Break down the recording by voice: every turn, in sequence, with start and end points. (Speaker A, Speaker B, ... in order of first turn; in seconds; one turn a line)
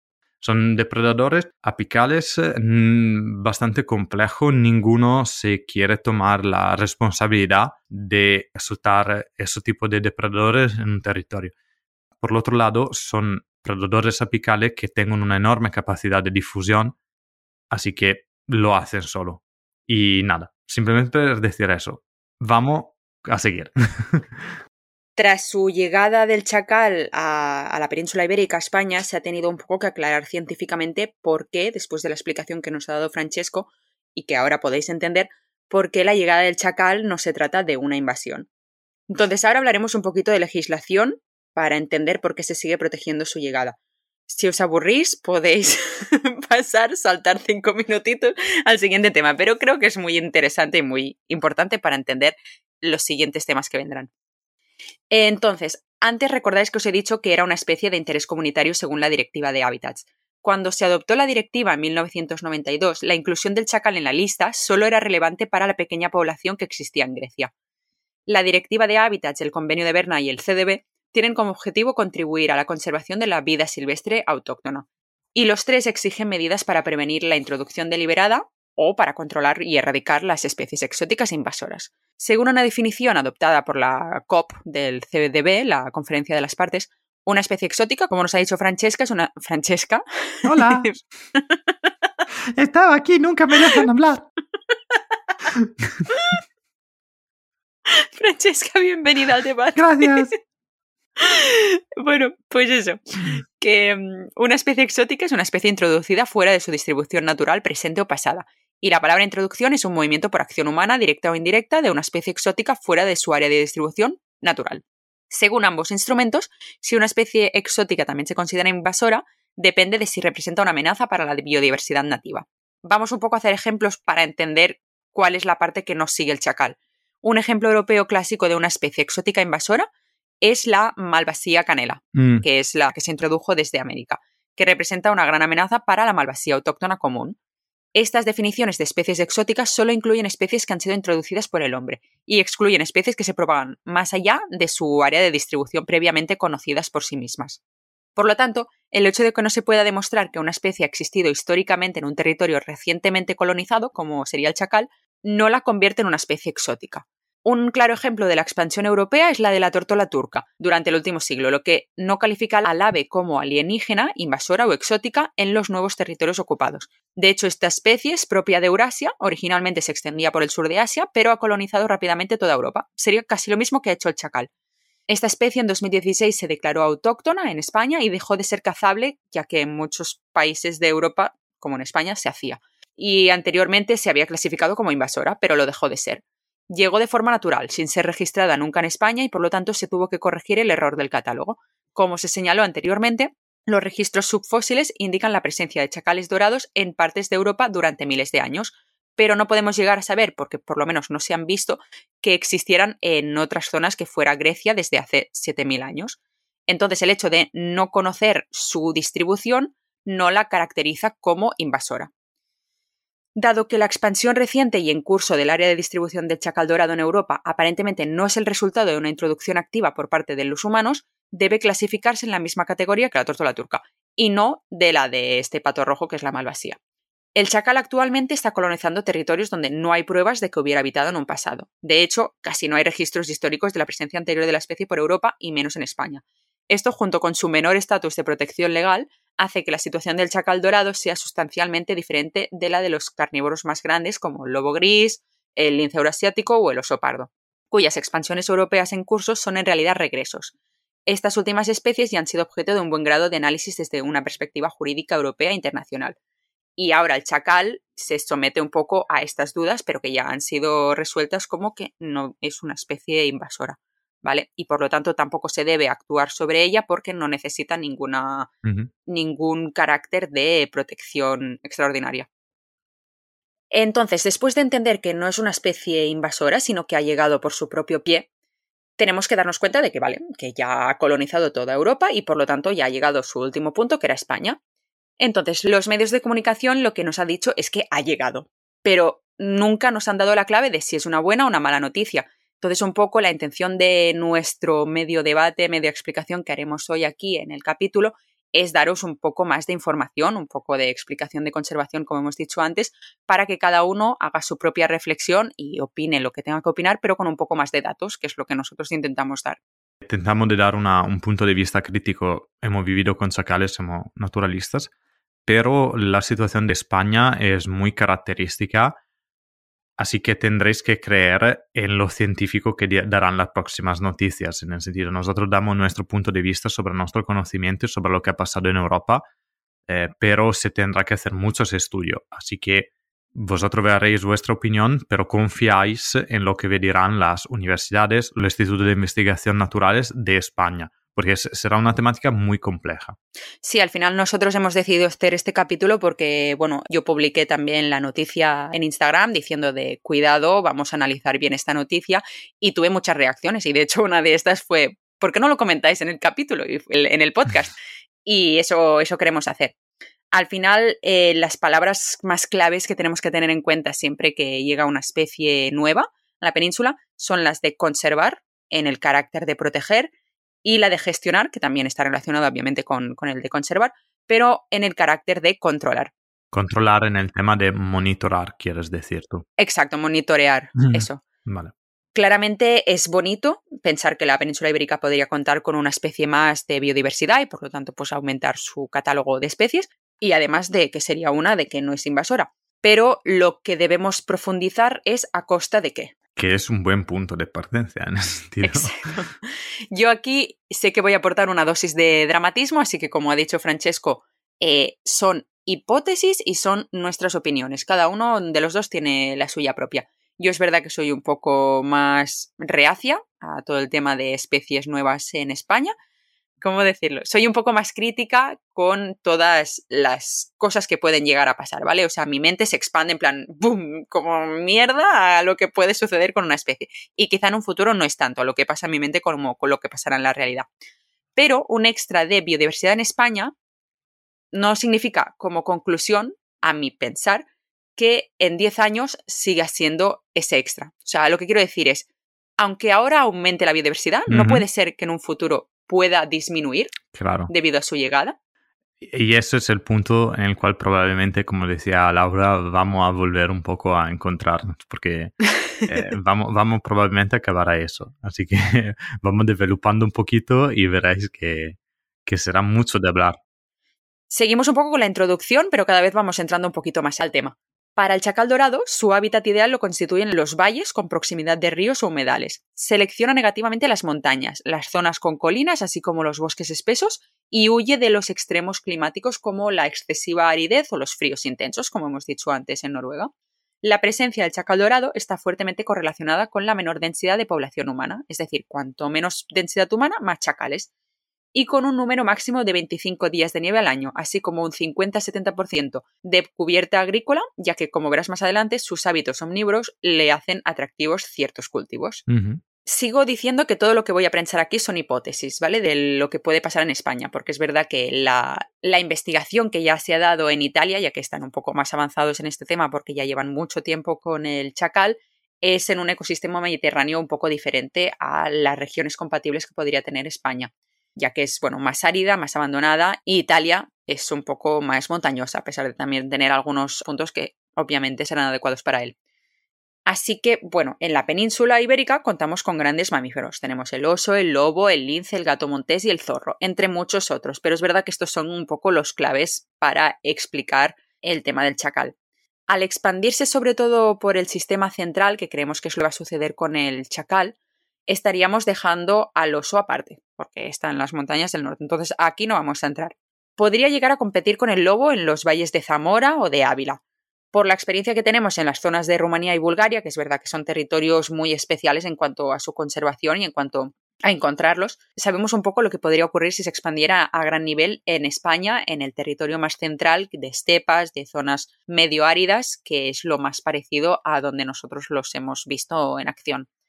Speaker A: 0.4-11.5
Speaker A: 12.2-16.9
Speaker A: 17.7-24.5
Speaker B: 25.1-38.5
Speaker B: 39.1-43.8
Speaker B: 44.3-54.1
Speaker B: 55.1-67.5
Speaker B: 68.3-91.6
Speaker A: 90.4-91.0
Speaker A: 92.5-94.2
Speaker B: 94.9-95.3
Speaker A: 95.5-96.0
Speaker B: 96.1-96.4
Speaker B: 97.9-100.3
Speaker A: 99.7-100.3
Speaker B: 101.2-129.9
Speaker B: 130.4-137.4
Speaker A: 132.1-132.4
Speaker B: 137.9-147.6
Speaker B: 148.2-174.5
Speaker B: 175.1-212.1
Speaker B: 213.3-226.8
Speaker B: 227.3-250.5
Speaker B: 251.1-256.1
Speaker B: 256.8-268.5
Speaker A: 268.6-268.9
Speaker B: 269.1-272.3
Speaker B: 273.7-278.3
Speaker B: 279.0-284.6
Speaker B: 285.2-309.6
Speaker A: 310.0-314.9
Speaker A: 315.4-319.0
Speaker A: 320.0-329.2
Speaker A: 329.9-343.1
Speaker B: 343.6-357.7
Speaker B: 358.2-359.7
Speaker B: 360.3-370.1
Speaker B: 370.6-376.1
Speaker A: 376.5-379.4
Speaker B: 379.6-381.2
Speaker A: 380.8-381.7
Speaker B: 382.1-396.1
Speaker A: 396.4-399.0
Speaker B: 398.6-399.3
Speaker B: 399.9-415.9
Speaker B: 416.6-430.7
Speaker B: 431.4-433.5
Speaker B: 434.5-442.1
Speaker B: 442.6-447.0
Speaker A: 444.3-444.6
Speaker A: 447.1-447.5
Speaker B: 447.5-448.3
Speaker A: 449.0-463.4
Speaker B: 464.3-483.3
Speaker B: 483.8-490.9
Speaker B: 491.5-502.2
Speaker A: 502.3-502.6
Speaker B: 502.8-529.1
Speaker B: 530.1-542.1
Speaker B: 542.7-547.5
Speaker B: 548.1-557.0
Speaker B: 557.5-576.7